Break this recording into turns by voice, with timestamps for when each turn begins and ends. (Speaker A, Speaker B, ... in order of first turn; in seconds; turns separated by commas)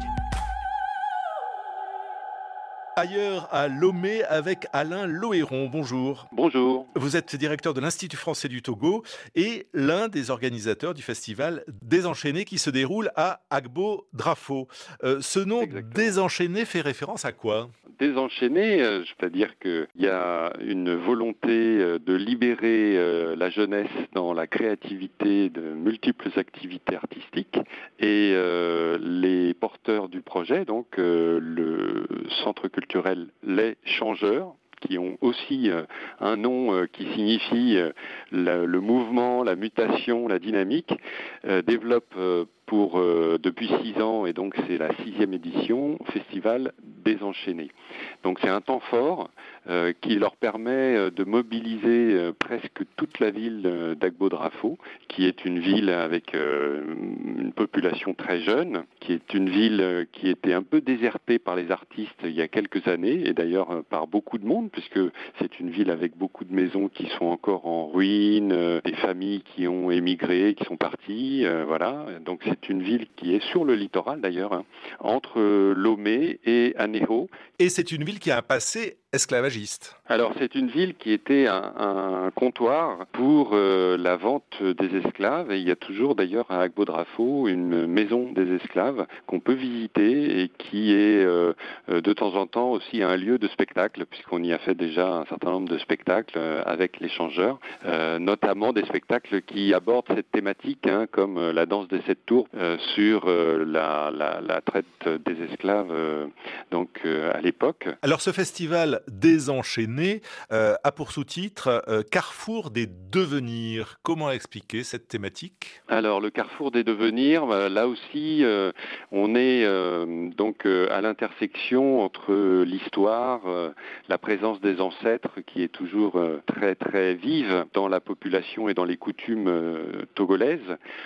Speaker A: 3.0-6.3, Speaker B: 6.3-6.9, Speaker A: 6.9-17.7, Speaker B: 15.6-16.1, Speaker B: 18.0-47.7, Speaker B: 48.2-77.3, Speaker A: 77.6-80.0, Speaker B: 80.1-108.0, Speaker A: 108.0-115.8, Speaker B: 115.9-130.8